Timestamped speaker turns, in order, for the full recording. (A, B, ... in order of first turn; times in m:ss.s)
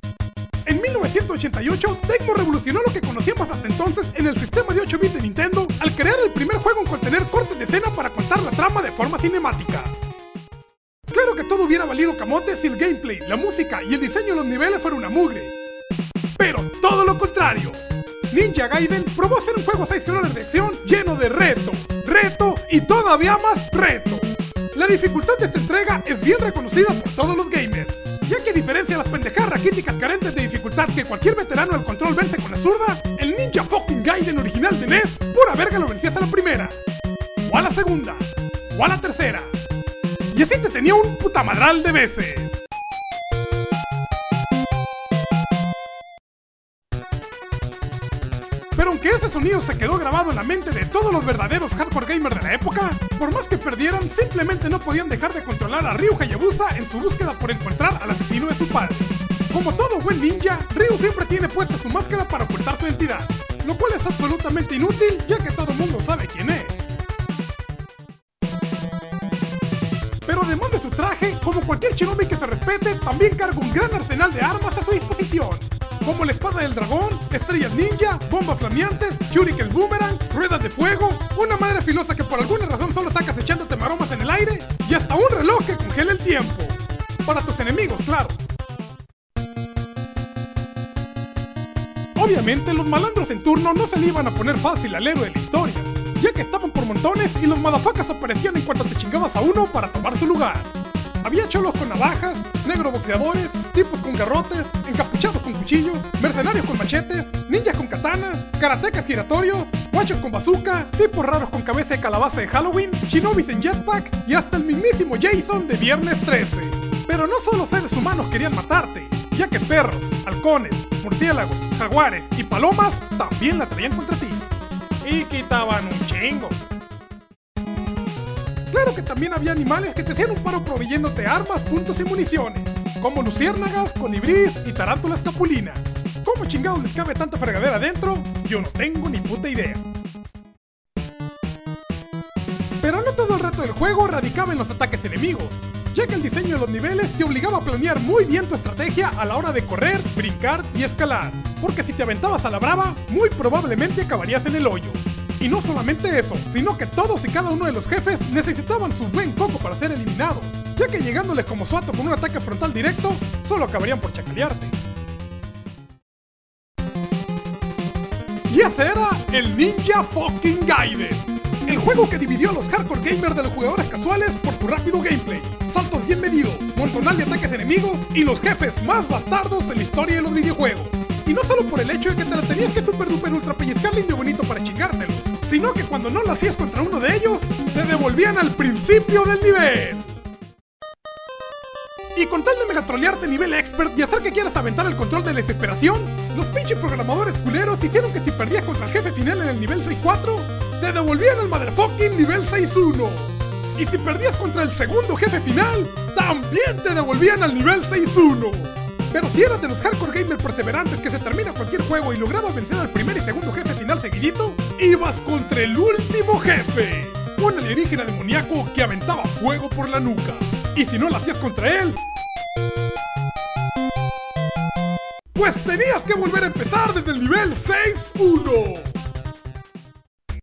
0:00.6-0:09.9 A
0:11.1-0:15.5 A
0:16.4-0:36.8 A
0:37.4-0:39.6 A
0:40.3-0:42.5 A
0:48.8-1:06.9 A
1:10.3-1:28.4 A
1:32.2-1:40.7 A
1:41.2-2:04.4 A
2:05.0-2:06.6 A
2:08.7-2:19.8 A
2:22.8-2:44.8 A
2:48.5-3:10.2 A
3:12.2-3:42.0 A
3:45.3-3:49.0 A